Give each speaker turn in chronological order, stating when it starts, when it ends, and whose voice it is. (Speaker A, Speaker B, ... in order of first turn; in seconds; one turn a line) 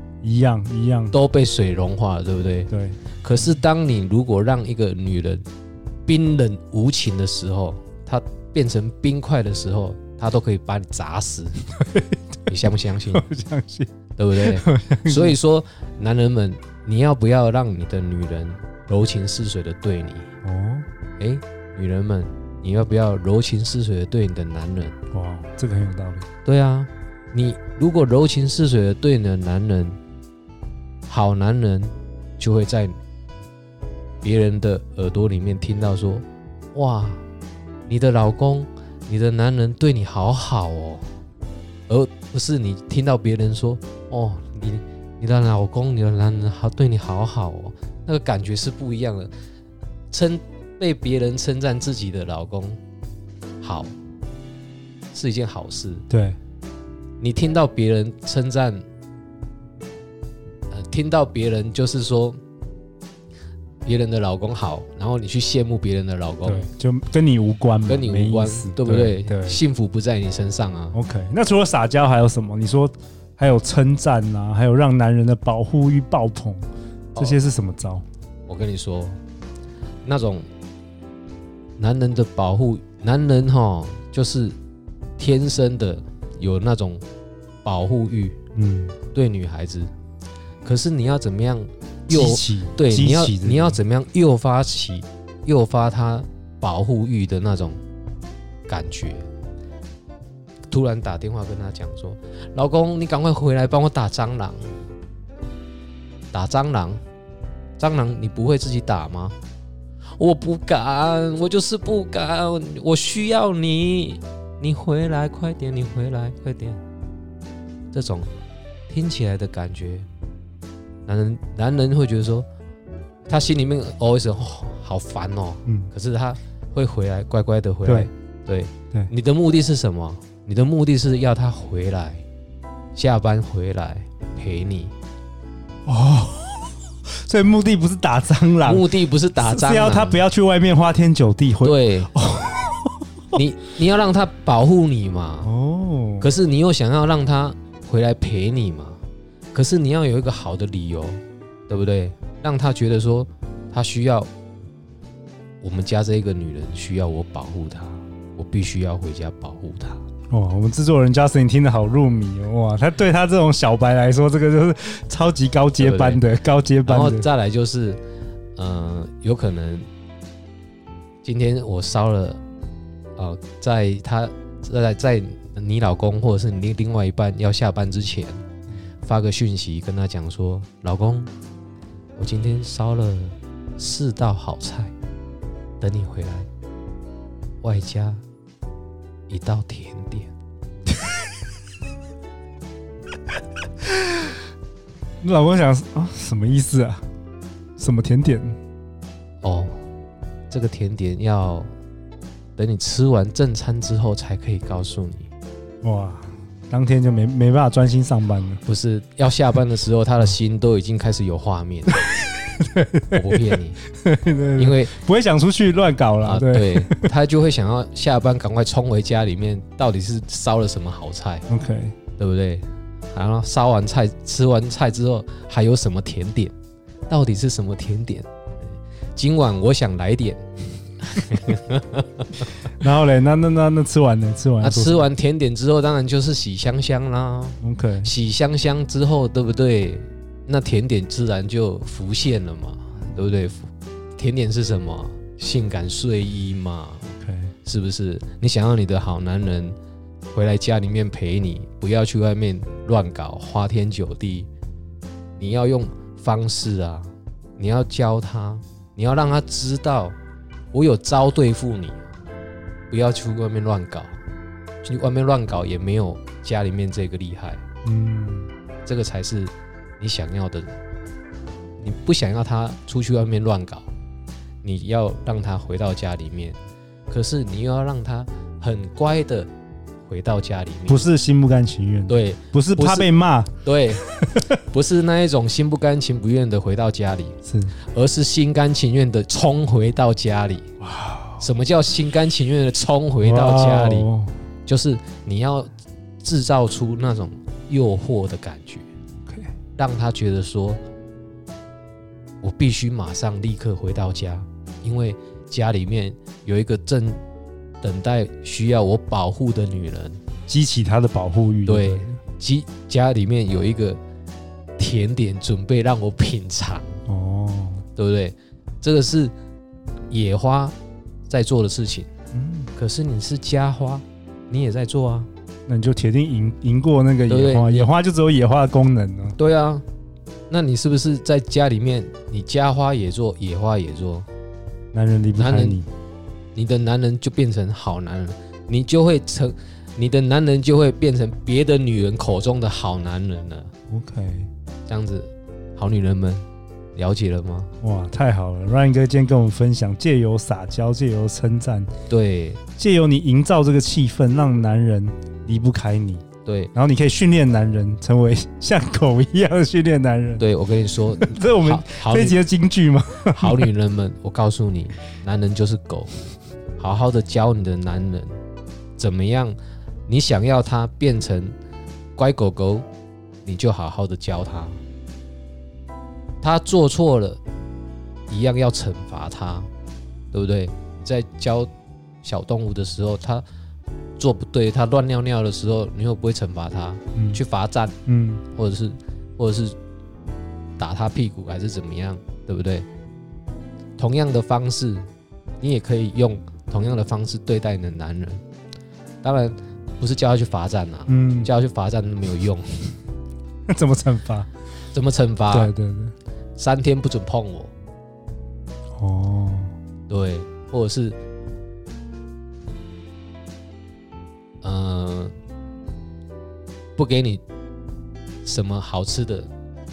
Speaker A: 0.2-1.1
Speaker B: 1.1-2.7
Speaker A: 2.7-3.0
Speaker B: 3.2-5.5
Speaker B: 6.1-11.6
Speaker A: 11.8-12.4
Speaker B: 12.5-13.2
Speaker A: 13.1-15.4
Speaker B: 14.2-20.3
Speaker A: 20.4-20.9
Speaker B: 21.2-25.0
Speaker A: 25.1-26.3
Speaker B: 26.4-30.0
Speaker B: 31.1-33.0
Speaker B: 34.2-37.2
Speaker B: 37.9-41.1
Speaker B: 41.9-49.3
Speaker B: 50.1-52.8
Speaker B: 53.6-54.0
Speaker B: 55.1-56.1
Speaker A: 56.1-56.4
Speaker B: 57.2-58.9
Speaker B: 60.7-62.4
Speaker B: 63.9-66.7
Speaker A: 66.4-69.6
Speaker B: 67.9-71.0
Speaker A: 70.9-76.7
Speaker A: 77.2-78.0
Speaker B: 78.5-79.2
Speaker B: 80.0-80.5
Speaker B: 81.8-84.6
Speaker B: 85.2-87.0
Speaker B: 87.7-88.4
Speaker A: 88.5-89.0
Speaker B: 89.1-89.9
Speaker B: 90.6-97.8
Speaker A: 92.1-93.8
Speaker B: 98.7-99.3
Speaker B: 100.7-104.8
Speaker B: 106.3-107.0
Speaker B: 107.8-109.4
Speaker B: 110.2-116.8
Speaker B: 117.9-118.3
Speaker B: 118.9-120.1
Speaker B: 121.1-122.5
Speaker B: 123.3-132.2
Speaker B: 132.9-134.9
Speaker A: 135.9-143.4
Speaker B: 138.7-140.2
Speaker B: 141.6-142.1
Speaker B: 143.3-145.5
Speaker A: 145.4-146.3
Speaker B: 146.2-149.0
Speaker B: 149.5-154.3
Speaker B: 155.6-160.0
Speaker A: 160.3-167.3
Speaker B: 165.8-166.2
Speaker B: 166.8-168.0
Speaker B: 168.6-169.9
Speaker B: 171.2-172.4
Speaker B: 173.2-178.4
Speaker B: 179.1-181.3
Speaker B: 182.2-184.9
Speaker B: 185.8-186.5
Speaker B: 187.6-188.2
Speaker B: 189.3-190.3
Speaker A: 195.2-197.1
Speaker A: 197.8-198.6
Speaker B: 199.4-199.8
Speaker B: 200.5-201.7
Speaker B: 202.6-205.3
Speaker A: 205.8-208.6
Speaker B: 208.7-212.0
Speaker A: 212.0-213.4
Speaker B: 213.1-213.8
Speaker A: 213.9-217.1
Speaker B: 214.6-214.9
Speaker B: 216.2-221.5
Speaker A: 221.5-221.9
Speaker B: 222.2-226.5
Speaker B: 227.1-228.3
Speaker B: 229.2-232.4
Speaker A: 232.7-235.1
Speaker B: 234.6-247.1
Speaker A: 237.6-238.1
Speaker A: 247.2-247.5
Speaker B: 247.7-249.8
Speaker B: 250.3-254.5
Speaker B: 255.4-260.2
Speaker B: 260.7-262.1
Speaker B: 262.9-264.2
Speaker B: 264.8-267.6
Speaker A: 267.9-268.5
Speaker B: 268.9-270.7
Speaker B: 271.8-273.9
Speaker B: 274.6-276.6
Speaker B: 277.1-279.5
Speaker B: 280.1-281.1
Speaker A: 280.9-283.5
Speaker B: 282.1-283.1
Speaker B: 283.6-284.0
Speaker A: 284.1-284.6
Speaker B: 284.7-290.7
Speaker A: 287.4-287.8
Speaker A: 290.8-291.4
Speaker B: 291.4-294.1
Speaker A: 293.2-294.3
Speaker B: 294.7-298.9
Speaker B: 299.8-300.8
Speaker B: 302.4-307.2
Speaker B: 307.8-310.2
Speaker A: 310.5-312.2
Speaker B: 311.7-314.0
Speaker B: 314.8-317.0
Speaker A: 317.1-317.8
Speaker B: 318.0-319.3
Speaker B: 320.1-320.8
Speaker B: 321.3-322.1
Speaker A: 322.3-322.7
Speaker B: 322.8-325.3
Speaker A: 325.7-329.4
Speaker B: 327.3-327.9
Speaker B: 329.4-329.8
Speaker B: 330.5-334.3
Speaker A: 334.9-335.9
Speaker B: 335.4-335.8
Speaker B: 336.6-343.7
Speaker A: 343.9-344.5
Speaker B: 344.9-347.7
Speaker A: 347.8-351.9
Speaker B: 352.1-352.6
Speaker A: 352.8-360.5
Speaker B: 356.4-356.7
Speaker B: 360.4-362.4
Speaker A: 361.1-363.7
Speaker B: 363.3-366.1
Speaker B: 366.8-368.4
Speaker B: 369.0-371.6
Speaker B: 372.2-372.9
Speaker B: 373.4-374.8
Speaker B: 376.4-377.4
Speaker B: 378.3-379.7
Speaker B: 380.3-381.7
Speaker B: 382.2-383.4
Speaker B: 384.2-387.9
Speaker A: 387.1-387.4
Speaker A: 388.1-388.4
Speaker B: 388.5-389.8
Speaker B: 390.8-392.9
Speaker B: 394.0-395.1
Speaker B: 395.6-398.4
Speaker B: 399.2-402.9
Speaker A: 401.1-401.5
Speaker A: 403.7-404.5
Speaker B: 404.9-405.7
Speaker A: 405.5-406.1
Speaker B: 406.6-407.7
Speaker A: 409.0-409.7
Speaker B: 410.1-411.2
Speaker B: 414.6-415.3
Speaker B: 417.0-417.4
Speaker B: 418.4-419.5